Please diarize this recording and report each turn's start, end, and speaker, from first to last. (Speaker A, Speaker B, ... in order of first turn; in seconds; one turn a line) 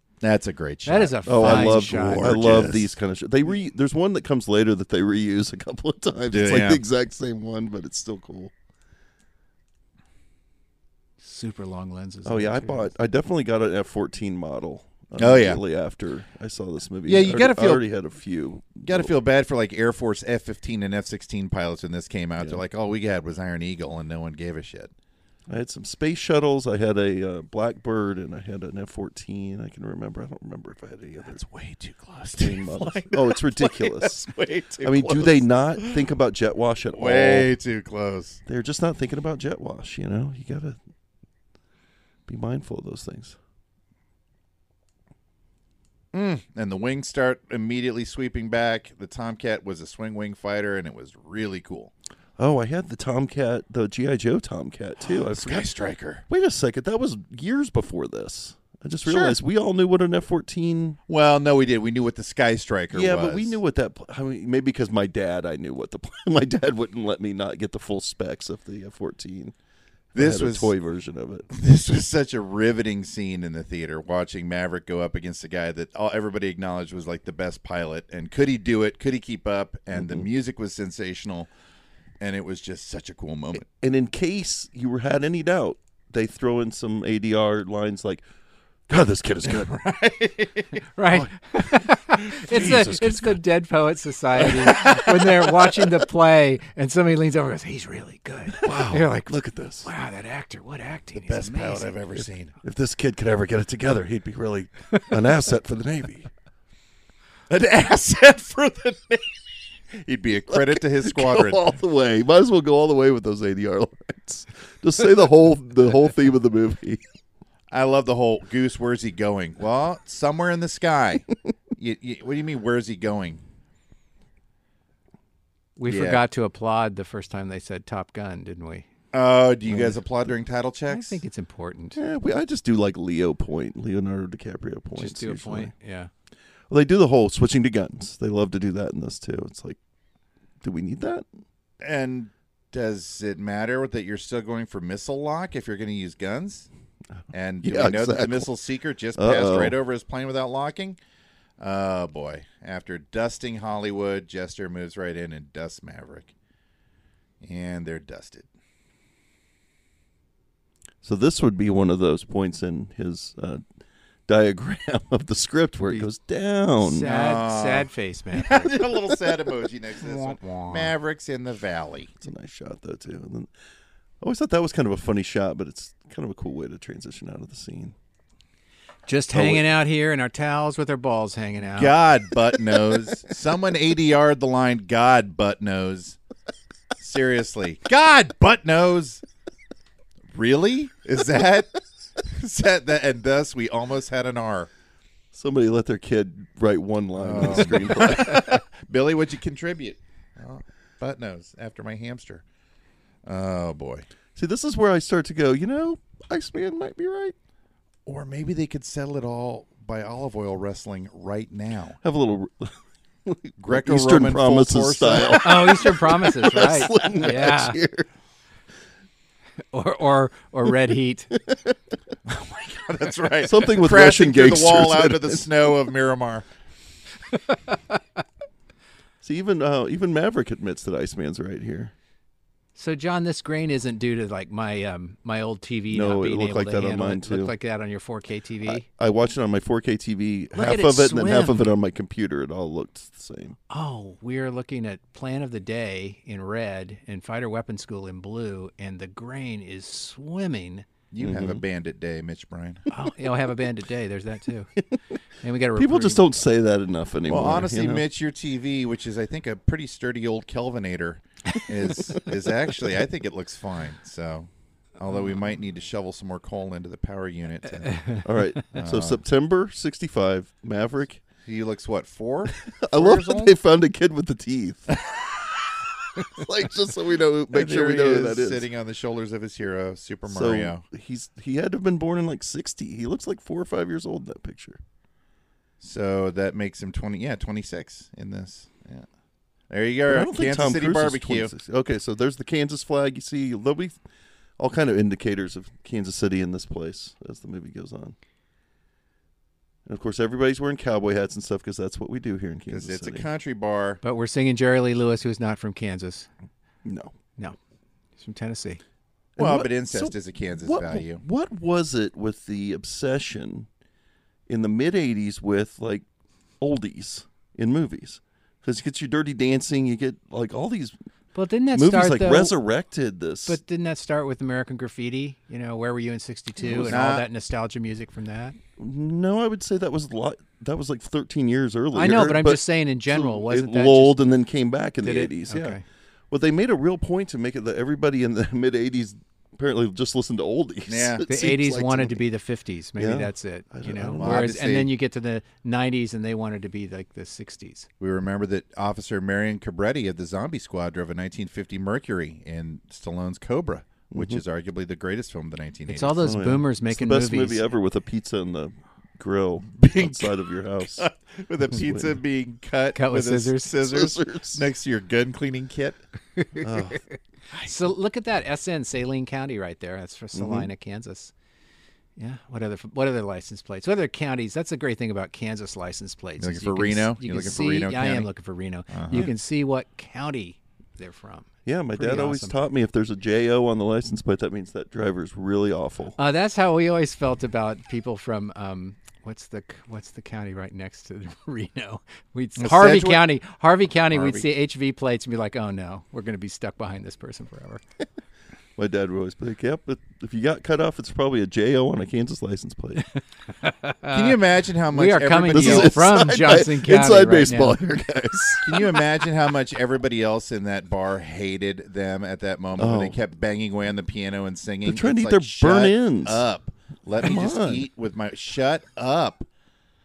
Speaker A: 0.2-3.0
Speaker B: 0.9-2.3
Speaker C: 1.2-8.5
Speaker A: 6.3-6.8
Speaker B: 11.2-12.9
Speaker C: 12.2-19.1
Speaker A: 15.2-15.6
Speaker A: 17.1-17.9
Speaker A: 18.9-24.9
Speaker C: 25.5-31.4
Speaker A: 31.3-36.0
Speaker C: 32.4-37.5
Speaker A: 36.9-38.4
Speaker C: 38.5-40.8
Speaker C: 42.3-43.4
Speaker A: 46.1-51.9
Speaker C: 52.4-55.7
Speaker A: 55.1-56.2
Speaker C: 56.3-61.0
Speaker A: 59.0-59.4
Speaker A: 61.1-63.6
Speaker C: 62.9-69.5
Speaker C: 70.1-71.5
Speaker A: 70.2-70.7
Speaker A: 71.5-81.5
Speaker C: 79.9-80.3
Speaker A: 82.2-83.7
Speaker C: 83.7-88.2
Speaker C: 88.9-89.8
Speaker A: 89.5-90.8
Speaker B: 91.0-101.9
Speaker C: 91.1-91.8
Speaker C: 92.5-93.4
Speaker A: 92.5-92.9
Speaker A: 94.5-95.2
Speaker C: 98.6-99.9
Speaker A: 101.2-102.5
Speaker C: 102.2-106.3
Speaker A: 107.5-109.3
Speaker A: 109.9-111.7
Speaker C: 110.5-117.0
Speaker A: 117.7-123.4
Speaker B: 125.8-128.9
Speaker A: 125.9-126.2
Speaker A: 129.1-131.2
Speaker C: 129.7-129.9
Speaker B: 130.9-132.0
Speaker C: 131.9-135.7
Speaker B: 134.9-136.1
Speaker C: 136.7-139.8
Speaker C: 140.6-141.3
Speaker A: 141.8-146.7
Speaker A: 147.3-151.0
Speaker C: 147.6-148.5
Speaker C: 149.2-149.8
Speaker A: 151.6-156.3
Speaker A: 157.4-158.5
Speaker C: 161.0-163.6
Speaker C: 164.3-167.1
Speaker B: 165.8-166.1
Speaker B: 166.8-168.8
Speaker A: 167.1-172.2
Speaker B: 170.0-170.9
Speaker C: 172.2-173.5
Speaker C: 174.2-177.9
Speaker B: 179.1-181.9
Speaker C: 179.3-179.7
Speaker A: 181.8-186.2
Speaker A: 187.0-189.2
Speaker A: 190.3-194.7
Speaker C: 195.3-198.6
Speaker A: 197.2-202.4
Speaker A: 203.3-204.1
Speaker C: 204.4-207.4
Speaker A: 208.1-212.0
Speaker C: 212.0-218.1
Speaker A: 213.6-215.7
Speaker B: 215.4-217.8
Speaker B: 219.7-221.3
Speaker C: 221.3-221.7
Speaker A: 222.3-226.5
Speaker C: 223.4-225.7
Speaker C: 229.2-231.9
Speaker B: 232.8-238.8
Speaker C: 235.9-237.5
Speaker C: 238.7-243.6
Speaker B: 240.5-241.7
Speaker B: 243.7-250.9
Speaker A: 251.1-252.9
Speaker C: 251.2-251.6
Speaker B: 252.9-254.7
Speaker B: 255.4-256.5
Speaker C: 255.8-258.1
Speaker A: 257.3-269.2
Speaker B: 267.9-268.6
Speaker C: 268.2-271.2
Speaker A: 271.5-273.6
Speaker C: 272.7-274.9
Speaker C: 276.3-278.7
Speaker A: 277.5-280.8
Speaker C: 280.3-284.8
Speaker A: 285.8-289.1
Speaker A: 289.7-291.5
Speaker C: 290.1-294.0
Speaker C: 294.6-298.2
Speaker C: 299.9-303.3
Speaker A: 302.7-304.0
Speaker B: 304.0-306.3
Speaker C: 306.8-307.1
Speaker B: 308.2-308.8
Speaker C: 309.4-313.7
Speaker A: 309.4-311.2
Speaker C: 314.5-316.1
Speaker C: 316.6-321.0
Speaker B: 321.3-322.6
Speaker C: 321.7-323.6
Speaker B: 323.5-328.6
Speaker C: 326.6-327.0
Speaker A: 326.8-327.3
Speaker C: 328.8-342.2
Speaker B: 331.9-334.2
Speaker B: 335.0-335.8
Speaker A: 340.9-341.2
Speaker B: 341.3-347.9
Speaker C: 343.0-344.5
Speaker A: 344.2-344.9
Speaker A: 348.0-356.3
Speaker C: 354.1-354.4
Speaker B: 355.9-357.7
Speaker C: 356.2-361.1
Speaker A: 359.7-366.0
Speaker C: 361.7-362.2
Speaker B: 362.9-363.7
Speaker C: 363.8-364.6
Speaker B: 366.4-366.9
Speaker C: 366.6-367.0
Speaker B: 367.6-371.3
Speaker C: 370.3-370.7
Speaker B: 372.2-382.6
Speaker A: 376.4-378.3
Speaker A: 378.9-379.3
Speaker C: 381.6-386.2
Speaker B: 386.2-397.8
Speaker A: 392.6-393.3
Speaker A: 394.1-394.5
Speaker C: 398.8-403.1
Speaker B: 403.6-404.4
Speaker A: 404.1-406.1
Speaker B: 404.9-407.8
Speaker C: 405.5-409.1
Speaker A: 408.6-419.5
Speaker C: 412.8-413.2
Speaker C: 414.9-416.4
Speaker C: 417.2-417.9